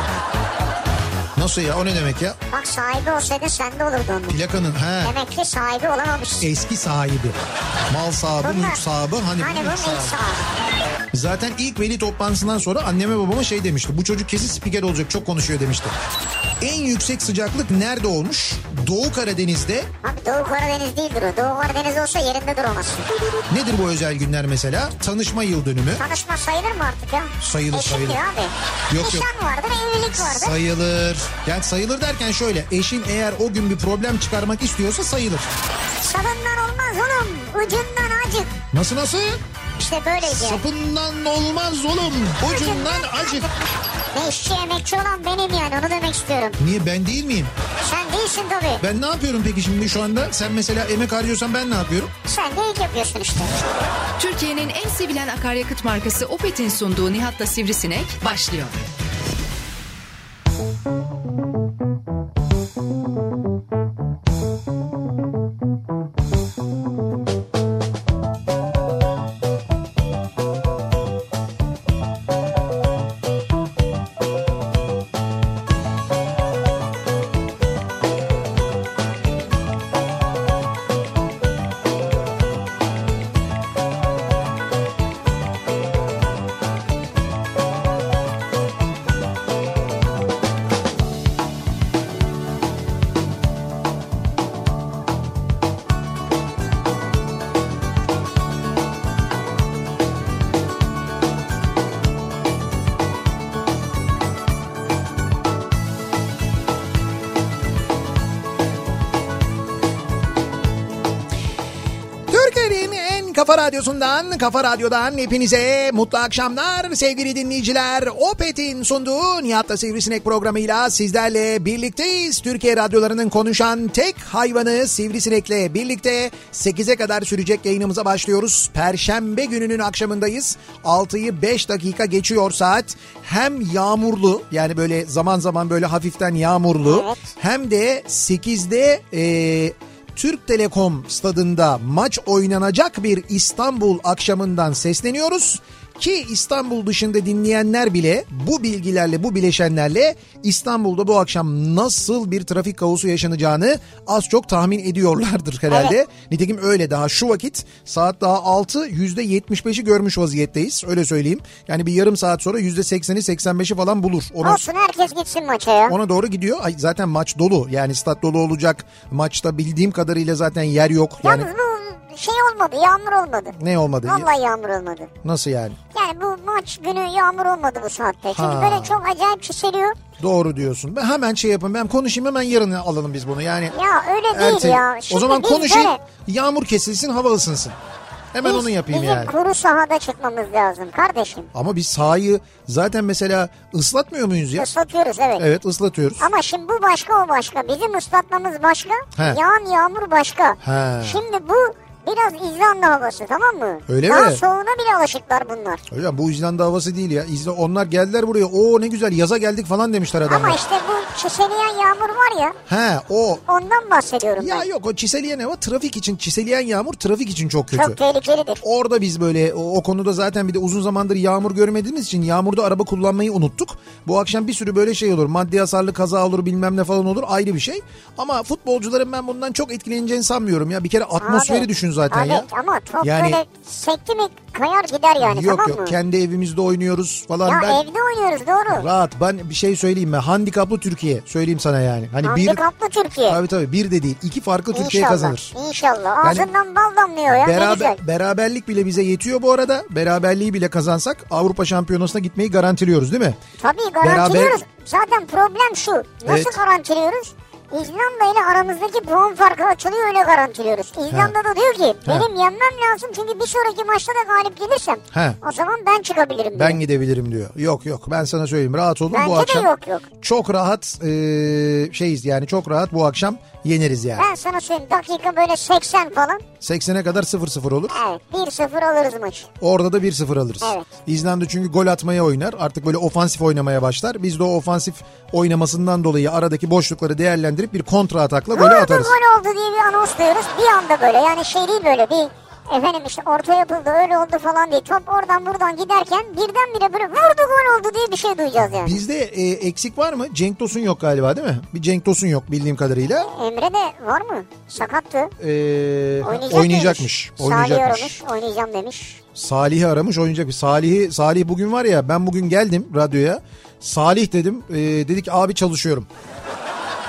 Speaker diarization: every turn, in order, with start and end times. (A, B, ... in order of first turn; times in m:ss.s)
0:01.4-0:02.4 A
0:02.5-0:04.4 B
0:04.3-0:05.1 A
0:05.0-0:06.4 B
0:06.4-0:07.4 A
0:07.9-0:10.2 A
0:08.4-0:08.8 B
0:09.4-0:10.4 B
0:11.1-0:15.9 A
0:16.6-0:19.9 A
0:20.0-0:23.0 B
0:23.5-0:26.0 A
0:26.0-0:30.5 B
0:27.4-0:28.2 A
0:28.9-0:29.3 A
0:30.2-0:35.5 A
0:36.0-0:38.5 B
0:38.7-0:39.4 A
0:39.8-0:40.6 B
0:40.2-0:43.5 A
0:42.4-0:43.5 B
0:44.1-0:46.6 B
0:46.6-0:47.5 A
0:47.8-0:48.8 B
0:48.8-0:52.1 A
0:52.2-0:53.5 B
0:54.2-0:58.8 C
1:52.3-2:44.6 A
2:16.8-2:17.3 B
2:35.7-2:35.9 B
2:44.4-2:45.9 B
2:45.9-2:51.5 A
2:51.2-2:53.5 B
2:53.6-2:54.3 A
2:54.0-2:55.1 B
2:55.2-2:55.8 A
2:55.9-3:00.0 B
2:58.3-2:59.0 A
3:00.2-3:03.7 A
3:03.7-3:06.0 B
3:04.3-3:07.8 A
3:08.3-3:09.3 A
3:08.4-3:11.5 B
3:11.5-3:14.7 A
3:14.6-3:15.4 B
3:15.4-3:16.3 A
3:16.2-3:25.8 B
3:20.6-3:21.2 A
3:23.9-3:24.4 A
3:25.9-3:30.6 A
3:30.2-3:32.6 B
3:32.7-3:33.4 A
3:33.5-3:34.6 B
3:34.4-3:38.0 A
3:37.7-3:38.6 B
3:38.6-3:52.5 A
3:51.2-3:56.0 B
3:53.0-3:53.4 A
3:55.2-3:57.8 A
3:57.4-3:58.8 B
3:58.7-4:02.6 A
4:02.2-4:03.4 B
4:03.3-4:05.5 A
4:04.7-4:08.0 B
4:06.2-4:06.5 A
4:07.3-4:13.4 A
4:13.6-4:26.8 B
4:14.0-4:14.6 A
4:16.2-4:16.6 A
4:25.1-4:25.4 A
4:26.5-4:29.7 A
4:29.1-4:30.0 B
4:30.2-4:34.3 A
4:34.2-4:36.4 B
4:36.6-4:38.0 A
4:37.9-4:39.5 B
4:39.6-4:49.2 A
4:40.6-4:40.9 B
4:48.5-4:59.0 B
4:58.6-5:03.3 A
5:03.2-5:05.3 B
5:05.4-5:08.2 A
5:06.2-5:09.2 B
5:09.3-5:16.1 A